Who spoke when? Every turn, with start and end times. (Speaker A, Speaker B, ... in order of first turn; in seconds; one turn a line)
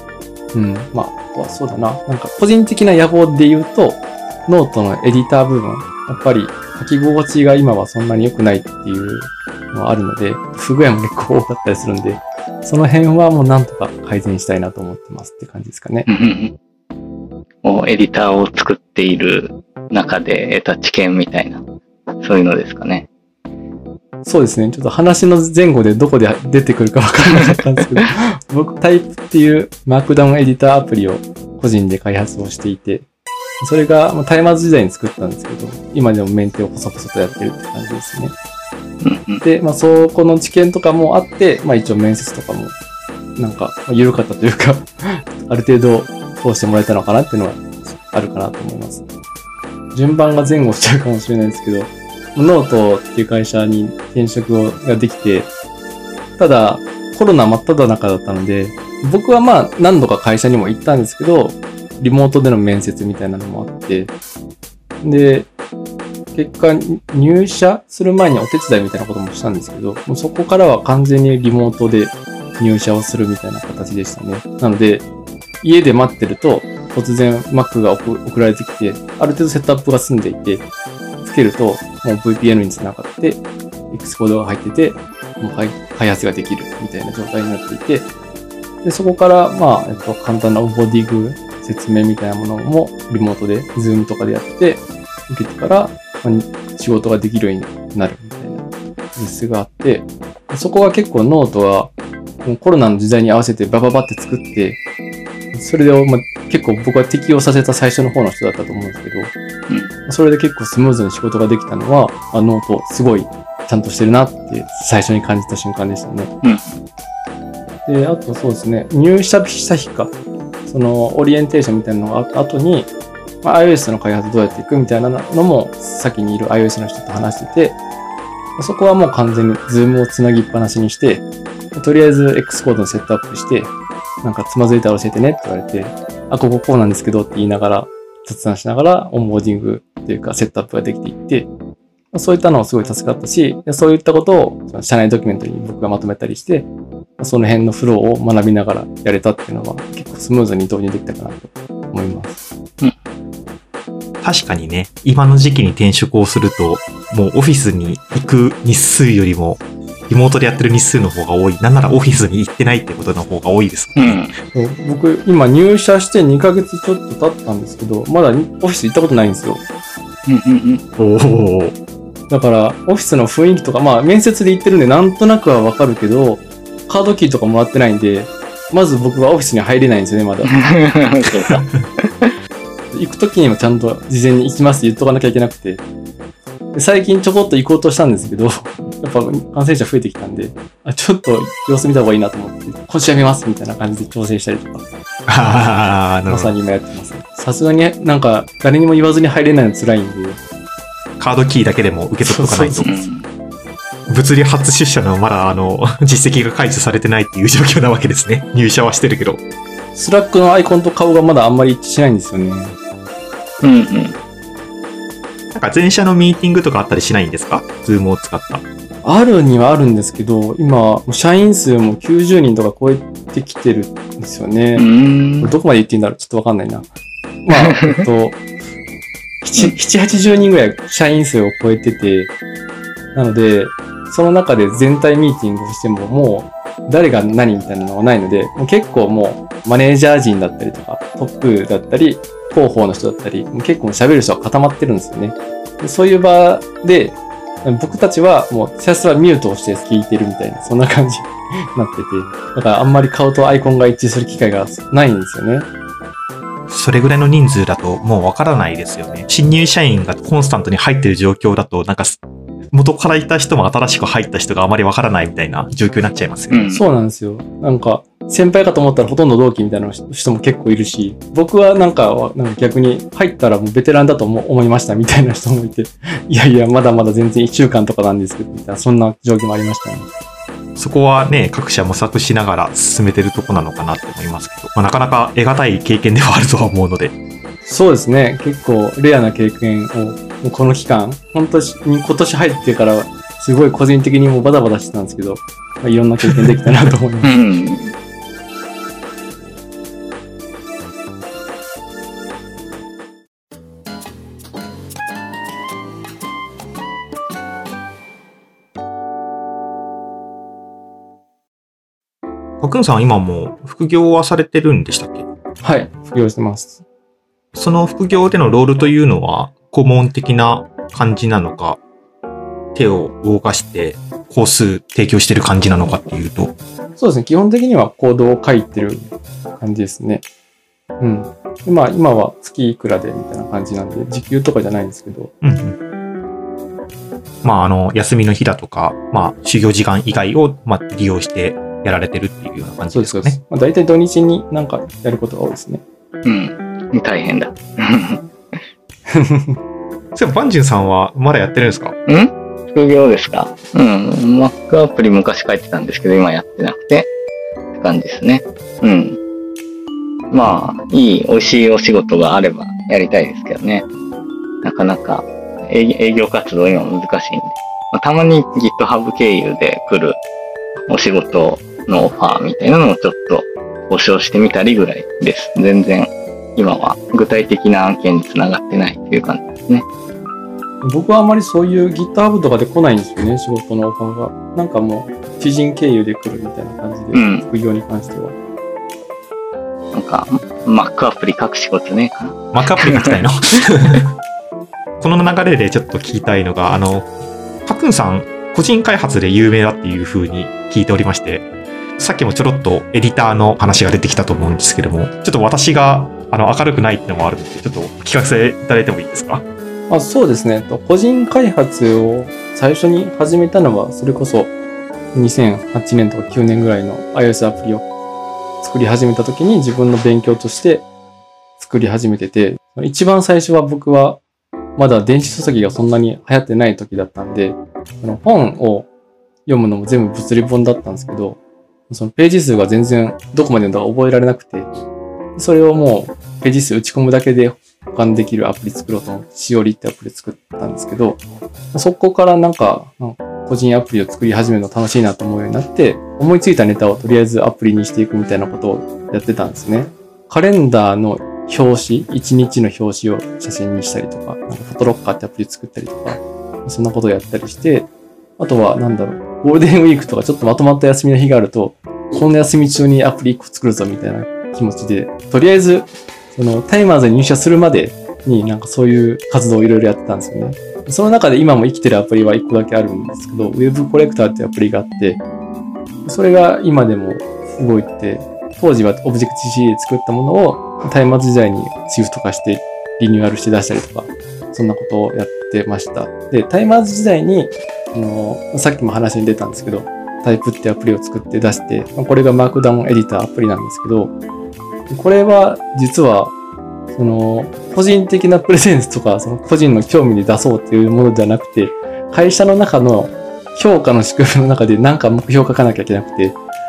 Speaker A: 0.5-16.1
Speaker B: 16.1-16.5
Speaker B: 17.6-21.6
Speaker B: 22.2-23.1
Speaker A: 24.2-33.0
Speaker A: 33.6-38.3
Speaker B: 39.0-39.4
Speaker A: 39.4-42.7
Speaker A: 43.4-49.0
Speaker A: 49.9-55.5
Speaker A: 56.4-64.1
Speaker A: 65.0-65.5
Speaker A: 66.3-75.0
Speaker A: 75.6-80.7
Speaker A: 81.2-88.1
Speaker A: 88.8-98.6
Speaker A: 99.2-101.9
Speaker A: 102.4-104.8
Speaker A: 105.5-109.3
Speaker A: 110.1-116.3
Speaker B: 116.4-116.8
Speaker A: 117.8-120.1
Speaker A: 120.7-122.9
Speaker A: 123.4-127.8
Speaker A: 128.6-141.5
Speaker A: 142.1-152.4
Speaker C: 154.2-164.2
Speaker B: 164.0-164.3
Speaker A: 164.5-169.6
Speaker B: 170.3-170.8
Speaker C: 171.0-171.7
Speaker A: 172.3-180.7
Speaker B: 180.5-182.3
Speaker A: 182.9-185.8
Speaker A: 186.7-194.8
Speaker C: 195.3-196.5
Speaker A: 196.3-200.4
Speaker C: 201.2-203.0
Speaker A: 202.2-202.9
Speaker B: 202.8-203.3
Speaker C: 204.1-209.4
Speaker A: 209.9-212.8
Speaker B: 213.6-214.2
Speaker C: 215.5-218.6
Speaker A: 219.0-224.9
Speaker B: 224.8-225.5
Speaker A: 225.4-226.9
Speaker A: 227.4-228.4
Speaker B: 227.5-228.0
Speaker A: 229.4-232.3
Speaker A: 233.1-255.7
Speaker C: 256.7-262.2
Speaker C: 262.7-266.7
Speaker B: 266.5-266.8
Speaker A: 266.7-280.1
Speaker C: 280.8-287.1
Speaker A: 287.6-297.3
Speaker B: 297.2-297.9
Speaker C: 312.6-315.2
Speaker A: 315.6-316.8
Speaker C: 317.5-321.8
Speaker C: 322.7-326.5
Speaker A: 327.0-329.1
Speaker A: 329.6-330.2
Speaker A: 331.0-335.3
Speaker C: 335.4-335.8
Speaker C: 337.4-343.4
Speaker A: 342.9-345.8
Speaker B: 346.2-348.2
Speaker A: 349.1-349.6
Speaker C: 350.1-351.9
Speaker B: 352.1-357.1
Speaker B: 357.8-359.2
Speaker B: 360.3-363.9
Speaker B: 364.6-370.2
Speaker B: 370.9-379.8
Speaker A: 380.8-388.3
Speaker B: 387.1-387.5
Speaker B: 389.9-393.5
Speaker C: 392.5-394.1
Speaker C: 395.0-397.1
Speaker C: 397.6-401.5
Speaker C: 402.0-409.4
Speaker A: 409.9-414.5
Speaker A: 415.1-417.9
Speaker A: 418.6-420.9
Speaker A: 421.6-424.2
Speaker A: 424.8-428.9
Speaker A: 429.4-431.4
Speaker A: 431.9-434.7
Speaker A: 435.4-441.2
Speaker A: 441.7-457.9
Speaker A: 458.4-475.2
Speaker A: 476.0-494.1
Speaker A: 494.9-496.3
Speaker A: 496.9-506.4